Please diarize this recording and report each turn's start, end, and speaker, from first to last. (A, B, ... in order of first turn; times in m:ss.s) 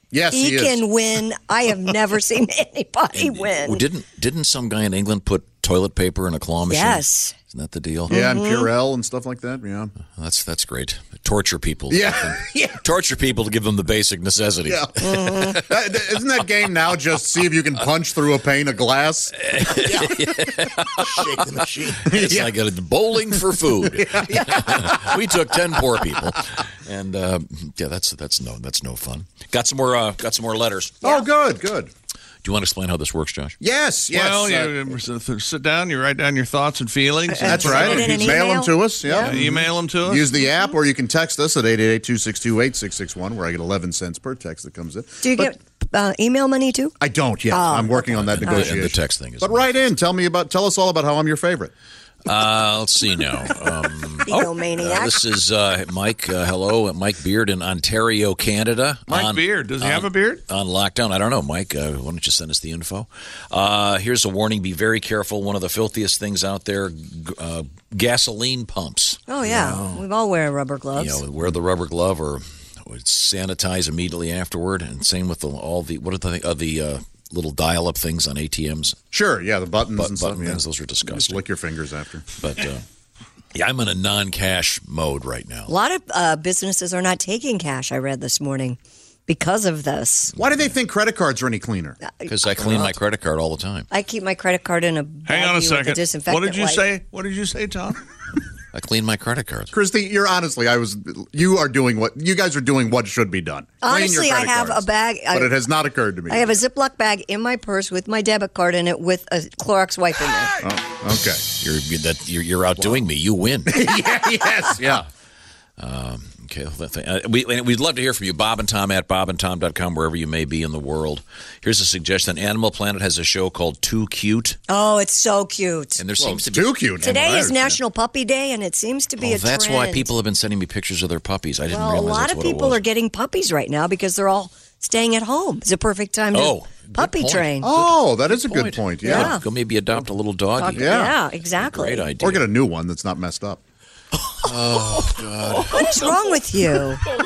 0:00.1-0:00.9 A
0:00.3-0:03.8 B
0:03.1-0:08.2 C
0:06.6-0:07.3 B
0:08.1-0:09.9 A
0:08.1-0:08.7 B
0:10.1-0:15.7 C
0:11.9-0:12.8 A
0:14.6-0:14.9 A
0:15.0-0:15.6 B
0:15.5-0:19.5 A
0:19.4-0:21.4 C
0:19.8-0:20.2 D
0:20.9-0:22.1 D
0:22.0-0:31.1 C
0:22.1-0:22.6 A
0:23.9-0:25.2 A
0:31.0-0:31.9 A
0:32.4-0:33.6 C
0:33.6-0:34.8 A
0:34.1-0:38.5 E
0:37.3-0:39.3 B
0:37.4-0:45.5 A
0:39.2-0:40.3 E
0:45.2-0:46.9 B
0:47.0-0:51.7 A
0:47.5-0:48.8 B
0:48.1-0:49.7 C
0:52.2-1:09.2 C
0:54.2-0:55.2 B
0:59.1-1:00.4 E
1:09.3-1:11.2 B
1:09.4-1:10.0 A
1:10.9-1:19.0 C
1:19.1-1:22.2 A
1:19.9-1:21.4 C
1:22.4-1:22.8 C
1:23.5-1:25.7 C
1:25.7-1:30.3 B
1:30.3-1:32.0 A
1:32.0-1:32.4 B
1:32.3-1:33.9 C
1:33.9-1:36.8 B
1:35.2-1:38.0 E
1:38.7-1:39.7 C
1:39.7-1:46.5 A
1:43.8-1:45.6 B
1:46.3-1:50.5 B
1:50.6-1:51.4 A
1:51.6-1:53.8 C
1:53.7-1:55.0 A
1:55.8-2:04.6 C
2:04.7-2:06.0 B
2:06.0-2:07.2 C
2:06.2-2:07.8 A
2:07.0-2:10.1 B
2:09.2-2:12.8 C
2:11.7-2:17.7 B
2:16.3-2:22.5 C
2:17.6-2:19.4 A
2:19.0-2:19.4 B
2:20.6-2:22.1 B
2:20.7-2:21.1 A
2:22.2-2:23.6 A
2:24.4-2:25.8 C
2:25.6-2:26.1 D
2:25.7-2:27.0 B